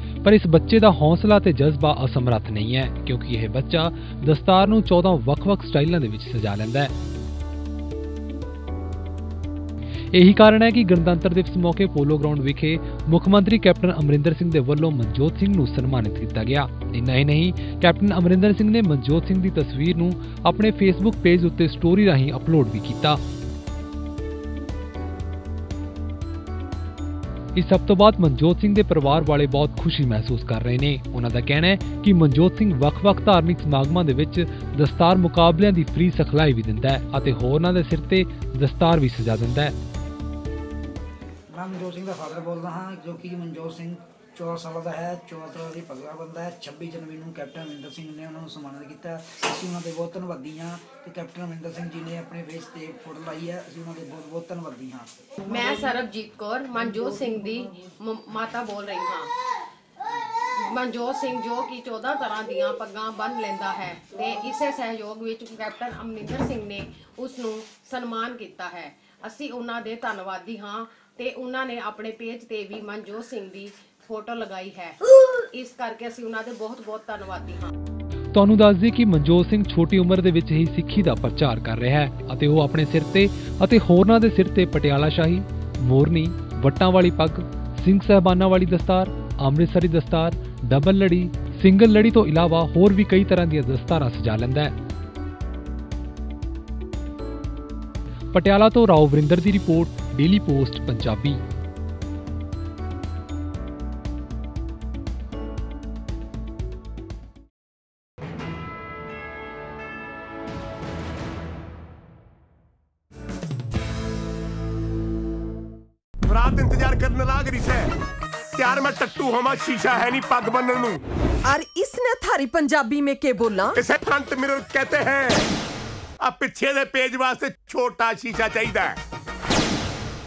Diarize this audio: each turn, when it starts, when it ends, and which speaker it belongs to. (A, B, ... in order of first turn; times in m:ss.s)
0:00.2-0:06.9 A
0:10.1-0:23.2 A
0:27.5-0:39.8 A
0:41.5-0:55.1 B
0:55.5-0:59.3 C
1:00.5-1:17.7 C
1:18.3-1:34.8 A
1:38.3-1:41.4 A
1:56.2-1:57.9 D
1:58.6-2:01.0 D
2:01.4-2:03.8 E
2:03.8-2:05.5 D
2:06.2-2:09.0 D